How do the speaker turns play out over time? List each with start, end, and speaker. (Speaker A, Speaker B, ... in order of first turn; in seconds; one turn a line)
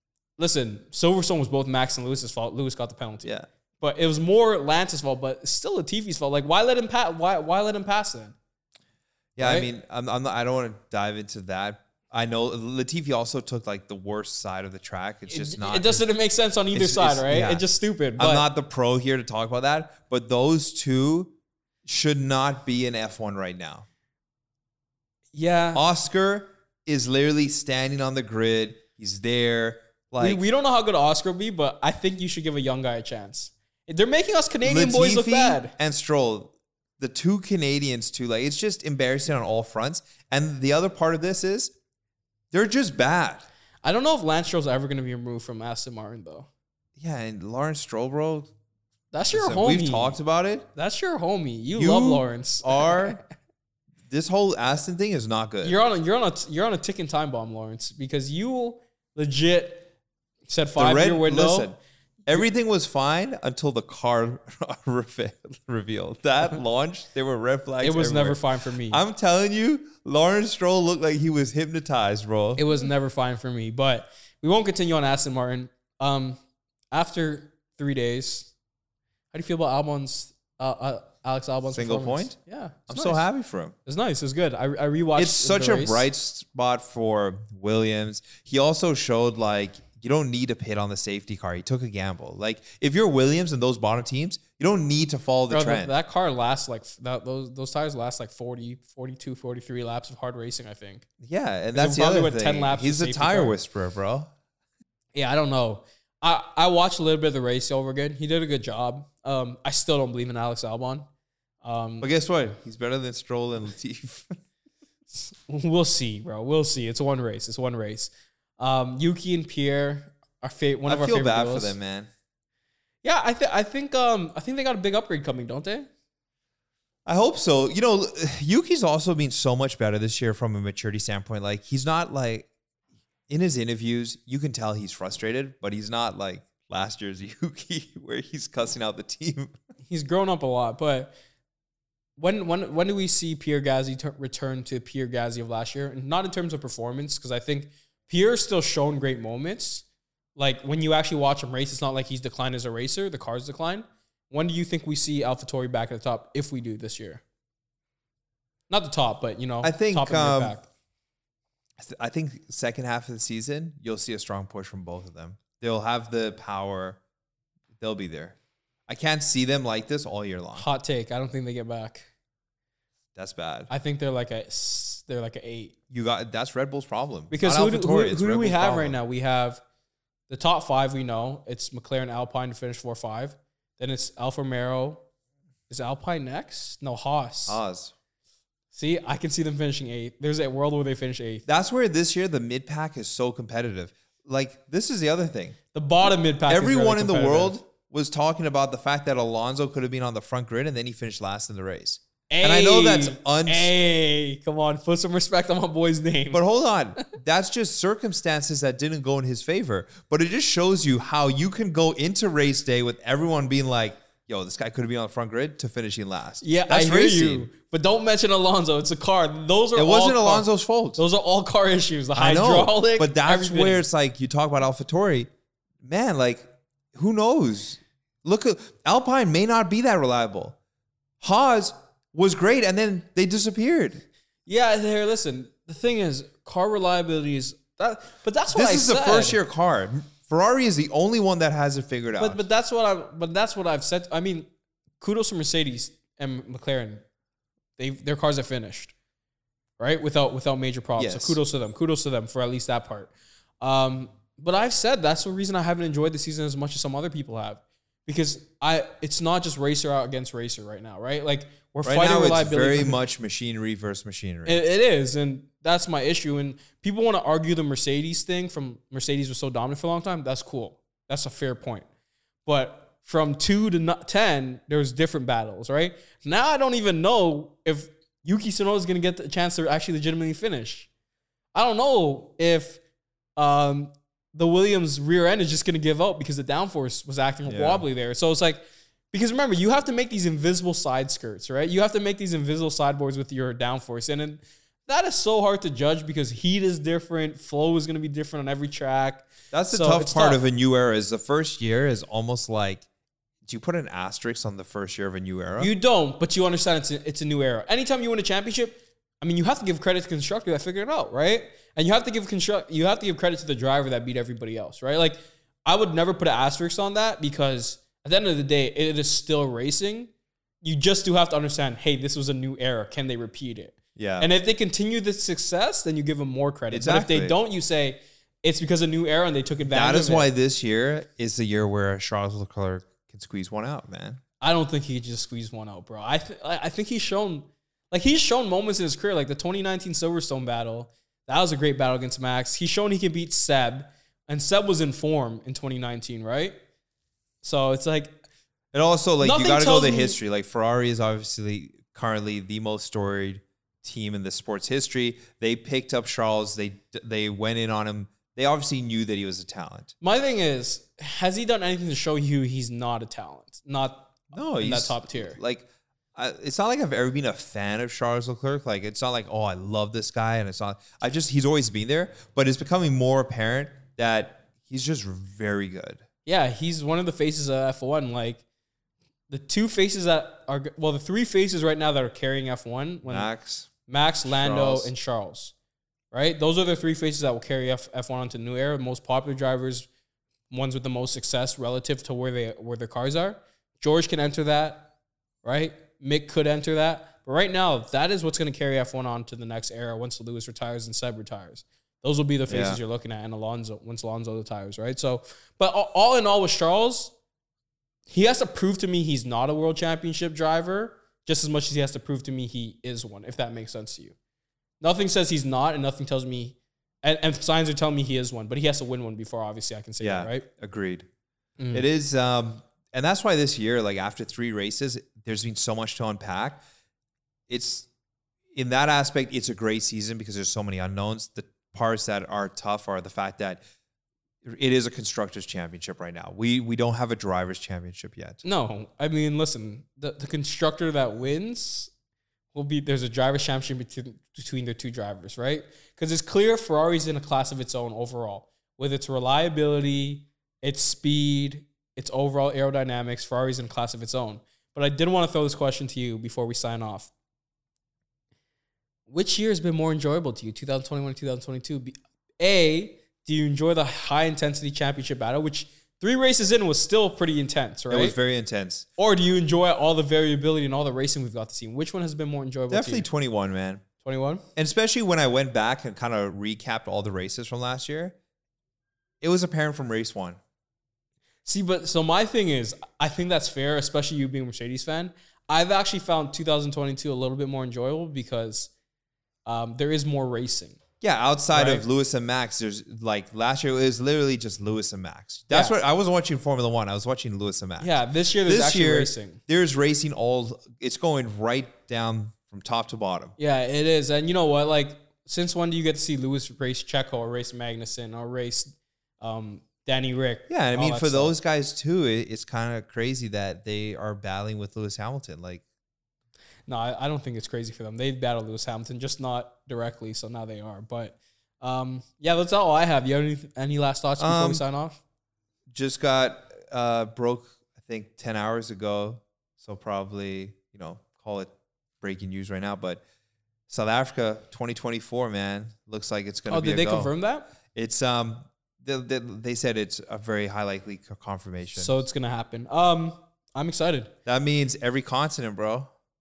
Speaker A: 0.4-8.3
Speaker B: 9.3-16.0
Speaker A: 9.4-9.7
Speaker A: 15.3-18.4
Speaker B: 16.7-17.6
Speaker B: 18.2-21.3
Speaker B: 21.8-23.9
Speaker A: 25.3-25.8
Speaker B: 25.7-30.4
Speaker A: 30.2-35.7
Speaker B: 34.6-41.7
Speaker B: 42.5-43.5
Speaker A: 43.8-46.5
Speaker B: 47.0-48.5
Speaker A: 49.1-50.1
Speaker B: 49.3-50.7
Speaker A: 50.8-53.2
Speaker B: 51.7-53.2
Speaker B: 54.1-55.8
Speaker A: 55.6-59.9
Speaker A: 60.5-61.7
Speaker B: 60.8-72.6
Speaker A: 67.8-69.0
Speaker A: 72.6-76.4
Speaker A: 76.9-78.5
Speaker A: 79.3-83.3
Speaker B: 81.7-82.4
Speaker B: 82.9-83.7
Speaker A: 83.8-86.1
Speaker B: 85.2-95.9
Speaker A: 95.5-101.0
Speaker B: 101.2-104.3
Speaker A: 101.7-103.5
Speaker A: 105.1-111.1
Speaker A: 111.6-112.1
Speaker B: 112.0-114.4
Speaker A: 115.1-121.8
Speaker B: 120.8-122.1
Speaker A: 123.0-125.9
Speaker B: 127.0-132.5
Speaker B: 133.3-139.6
Speaker A: 139.8-141.1
Speaker A: 142.2-149.8
Speaker A: 150.3-157.2
Speaker A: 158.7-160.7
Speaker B: 159.6-160.5
Speaker B: 161.8-167.0
Speaker B: 167.8-170.7
Speaker A: 170.5-172.1
Speaker B: 173.1-173.7
Speaker A: 173.7-175.7
Speaker B: 175.9-179.0
Speaker A: 177.3-179.6
Speaker A: 180.3-185.0
Speaker A: 185.7-187.6
Speaker B: 187.5-187.9
Speaker A: 188.7-191.4
Speaker B: 191.5-195.6
Speaker A: 195.7-197.6
Speaker B: 196.5-203.7
Speaker A: 202.3-206.4
Speaker B: 206.3-217.5
Speaker A: 216.4-223.8
Speaker B: 219.7-221.0
Speaker B: 222.2-225.3
Speaker B: 225.8-230.6
Speaker B: 231.2-234.0
Speaker A: 234.4-239.4
Speaker B: 238.5-242.4
Speaker A: 242.2-244.5
Speaker A: 245.0-247.0
Speaker A: 247.8-248.9
Speaker A: 249.8-263.0
Speaker B: 251.0-251.4
Speaker B: 261.8-264.6
Speaker A: 264.4-271.9
Speaker A: 272.4-280.9
Speaker A: 281.5-282.8
Speaker A: 283.4-300.4
Speaker B: 287.4-287.8
Speaker B: 299.5-302.8
Speaker B: 303.4-305.7
Speaker A: 305.6-320.1
Speaker A: 320.6-330.3
Speaker B: 323.9-324.3
Speaker B: 326.7-327.4
Speaker B: 329.7-334.2
Speaker A: 334.4-346.6
Speaker A: 347.4-348.2
Speaker B: 348.7-359.9
Speaker A: 349.2-350.2
Speaker A: 360.0-365.4
Speaker B: 364.3-376.0
Speaker A: 376.2-378.4
Speaker A: 379.3-383.3
Speaker B: 383.1-383.7
Speaker A: 383.9-385.5
Speaker B: 384.2-384.9
Speaker A: 386.1-389.9
Speaker A: 390.5-394.9
Speaker A: 395.4-407.1
Speaker B: 402.5-402.8
Speaker A: 408.1-414.1
Speaker A: 414.8-420.4
Speaker B: 420.0-421.1
Speaker A: 421.6-421.9
Speaker B: 421.7-426.6
Speaker B: 427.5-427.9
Speaker B: 428.5-433.6
Speaker B: 434.4-438.4
Speaker A: 438.4-441.9
Speaker A: 442.5-457.1
Speaker A: 459.1-468.2
Speaker B: 467.9-468.9
Speaker A: 469.0-473.1
Speaker B: 472.7-473.8
Speaker A: 474.0-474.4
Speaker B: 474.6-478.1
Speaker B: 479.2-480.4
Speaker A: 481.4-488.7
Speaker A: 489.4-490.8
Speaker B: 491.0-503.3
Speaker A: 491.5-491.8
Speaker A: 495.5-495.8
Speaker A: 497.8-499.4
Speaker A: 503.4-511.3
Speaker B: 510.5-515.6
Speaker A: 516.7-525.0
Speaker B: 524.2-524.6
Speaker B: 525.7-533.0
Speaker B: 533.7-537.1
Speaker A: 536.5-537.5
Speaker B: 537.7-542.0
Speaker A: 541.8-544.1
Speaker B: 544.2-545.9